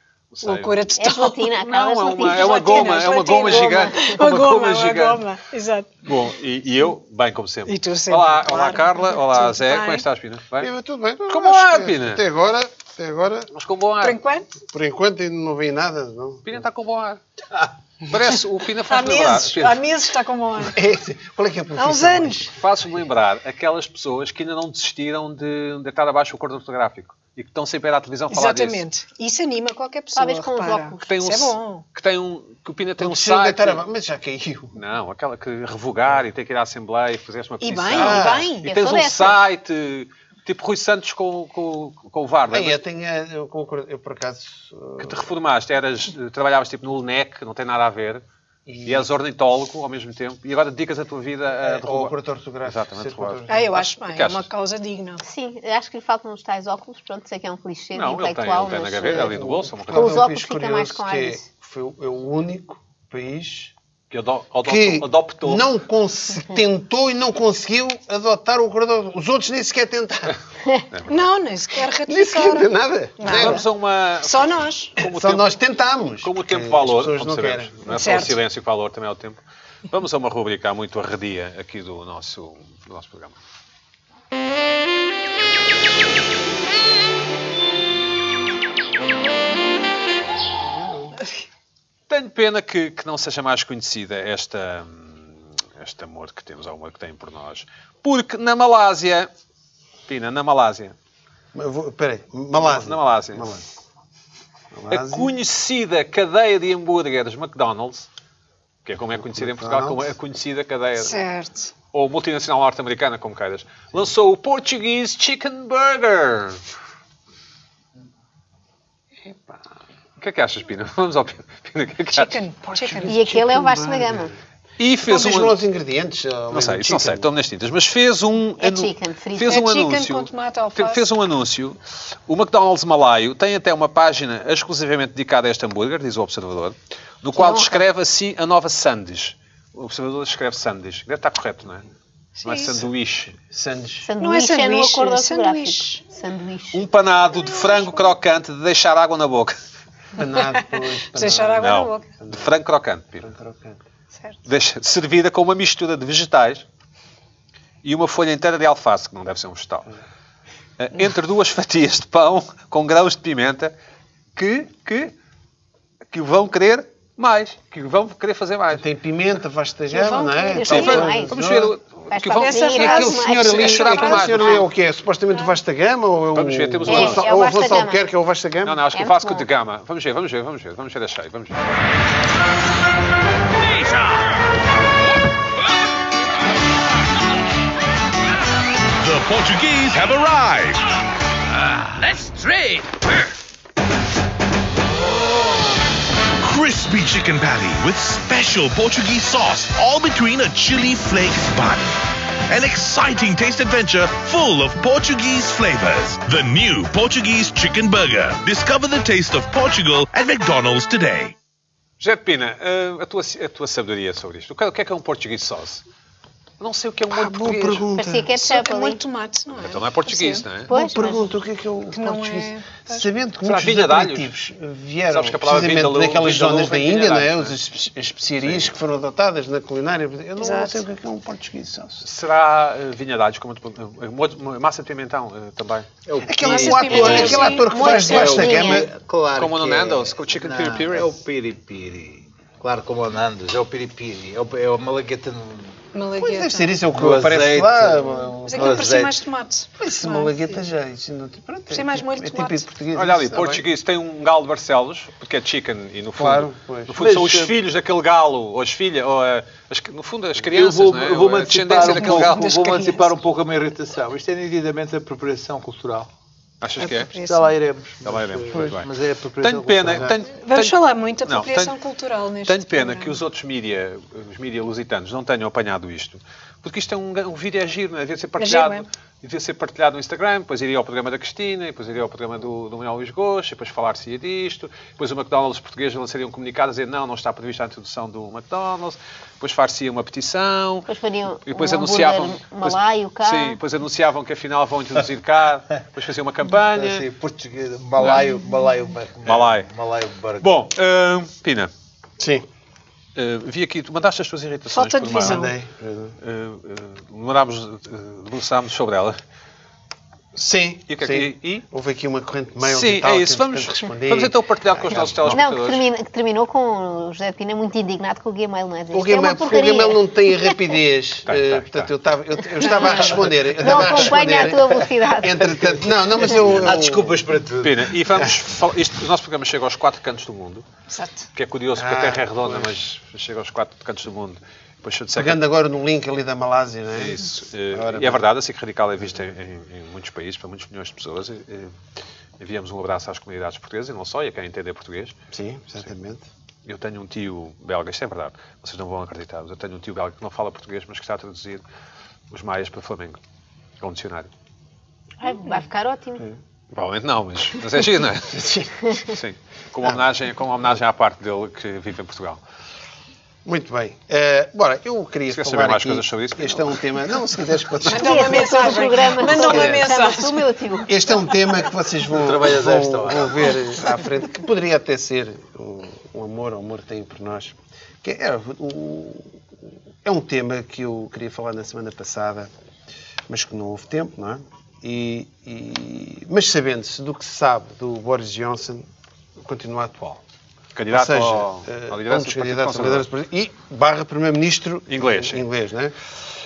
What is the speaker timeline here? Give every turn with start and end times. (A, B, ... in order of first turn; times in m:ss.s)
0:00.3-0:05.2 A
0:00.4-0:01.5 B
0:01.0-0:03.0 C
0:02.2-0:05.9 B
0:03.7-0:04.2 C
0:06.0-0:10.7 A
0:07.7-0:10.0 B
0:10.6-0:13.5 D
0:11.3-0:12.2 A
0:13.5-0:14.2 A
0:14.0-0:14.5 B
0:14.6-0:16.6 D
0:16.4-0:17.2 A
0:18.1-0:19.8 A
0:18.8-0:20.8 B
0:20.6-0:22.5 D
0:21.8-0:22.5 B
0:22.5-0:28.8 A
0:28.3-0:31.8 B
0:30.1-0:31.1 C
0:31.0-0:33.8 A
0:33.0-0:34.8 D
0:34.7-0:42.8 A
0:37.6-0:38.7 B
0:37.9-0:38.5 D
0:38.6-0:39.4 C
0:42.5-0:45.3 D
0:45.0-0:48.2 A
0:48.6-0:49.1 D
0:48.8-0:52.1 A
0:51.6-0:53.7 D
0:52.6-0:54.5 A
0:53.5-0:55.2 B
0:55.2-0:59.3 C
0:57.9-1:00.2 A
0:59.1-1:03.7 D
0:59.9-1:01.4 C
1:04.1-1:05.7 A
1:04.6-1:10.3 D
1:10.9-1:11.3 A
1:11.1-1:13.6 B
1:12.1-1:13.6 D
1:13.2-1:15.5 A
1:14.2-1:14.9 B
1:15.0-1:17.9 D
1:16.2-1:23.4 A
1:17.9-1:18.4 B
1:30.6-1:31.1 D
1:32.1-1:39.3 A
1:40.1-1:40.9 A
1:41.5-1:43.6 D
1:42.6-1:43.5 A
1:44.7-1:45.3 D
1:44.9-1:48.1 A
1:48.8-1:51.2 A
1:49.2-1:50.1 D
1:51.0-1:51.7 B
1:51.9-1:56.6 A
1:59.3-1:59.6 D
2:00.2-2:02.4 A
2:02.1-2:03.1 B
2:02.7-2:04.3 D
2:03.1-2:04.3 C
2:04.8-2:05.6 A
2:05.0-2:07.3 D
2:06.5-2:21.9 A
2:08.6-2:09.6 C
2:09.4-2:11.0 B
2:17.4-2:17.8 C
2:22.4-2:22.8 B
2:22.4-2:23.4 A
2:23.5-2:24.1 D
2:24.0-2:26.8 C
2:24.2-2:26.0 B
2:26.7-2:29.6 A
2:27.3-2:28.1 B
2:30.1-2:32.5 D
2:30.2-2:32.1 B
2:31.6-2:33.3 A
2:33.2-2:33.8 D
2:34.1-2:34.4 B
2:34.4-2:36.6 A
2:37.8-2:39.9 A
2:40.8-2:43.7 A
2:44.3-2:45.1 A
2:46.1-2:48.8 A
2:48.7-2:51.8 D
2:49.9-2:51.0 B
2:50.5-2:51.4 C
2:50.6-2:54.6 A
2:52.1-2:54.3 C
2:52.3-2:54.6 B
2:52.8-2:58.8 D
2:56.3-2:57.3 A
2:56.9-2:58.0 C
2:58.6-3:01.6 A
2:58.9-2:59.4 C
3:09.0-3:10.9 E
3:16.4-3:21.9 E
3:22.5-3:31.3 E
3:32.0-3:35.8 A
3:36.6-3:37.9 A
3:37.1-3:38.3 D
3:37.9-3:39.0 C
3:38.3-3:41.2 B
3:39.6-3:40.7 A
3:40.7-3:41.2 C
3:40.7-3:52.0 D
3:41.9-3:43.1 B
3:43.4-3:44.3 A
3:45.1-3:47.6 A
3:48.4-3:48.7 A
3:50.4-3:50.8 B
3:52.0-3:55.9 A
3:56.0-4:05.8 F
3:56.2-3:58.8 D
3:56.4-3:58.9 B
3:57.0-3:58.8 C
3:59.4-4:01.1 A
4:05.9-4:06.8 B
4:06.2-4:09.0 D
4:06.9-4:09.2 F
4:08.4-4:10.6 B
4:09.8-4:13.7 D
4:11.7-4:12.7 B
4:12.9-4:22.6 A
4:16.1-4:17.3 D
4:17.0-4:17.5 F
4:20.5-4:26.1 F
4:21.8-4:23.1 B
4:26.6-4:27.1 A
4:26.8-4:27.6 B
4:27.2-4:30.2 F
4:28.0-4:31.8 A
4:30.2-4:33.2 B
4:32.4-4:50.9 A
4:38.4-4:38.8 B
4:50.8-4:53.6 C
4:51.4-4:57.1 A
4:56.7-5:00.5 F
4:58.0-4:58.2 A
4:59.2-4:59.7 A
5:00.4-5:01.7 A
5:02.2-5:02.4 D
5:03.2-5:05.4 A
5:04.7-5:05.5 B
5:05.2-5:06.2 D
5:06.2-5:09.2 A
5:10.3-5:15.4 D
5:10.9-5:11.6 A
5:12.6-5:15.8 A
5:15.2-5:20.7 C
5:18.9-5:27.2 D
5:21.2-5:21.9 A
5:22.6-5:22.9 C
5:23.5-5:25.5 C
5:26.2-5:27.9 F
5:27.6-5:30.7 A
5:30.9-5:31.2 B
5:31.3-5:35.4 A
5:31.7-5:32.7 D
5:35.2-5:37.2 D
5:36.9-5:41.7 A
5:37.7-5:38.2 D
5:42.4-5:45.2 A
5:45.3-5:46.2 D
5:46.6-5:51.6 A
5:52.3-5:53.2 A
5:53.8-5:54.3 A
5:55.2-5:56.2 C
5:56.7-5:58.4 A
5:58.3-5:59.0 D
5:59.0-6:02.4 A
6:03.4-6:08.7 D
6:05.3-6:06.8 A
6:07.9-6:10.5 B
6:07.9-6:11.6 C
6:09.2-6:09.9 D
6:10.8-6:19.4 D
6:12.1-6:13.6 F
6:20.0-6:22.5 D
6:23.3-6:28.8 D
6:29.4-6:30.2 D
6:30.7-6:33.1 A
6:30.9-6:36.0 D
6:34.9-6:35.4 A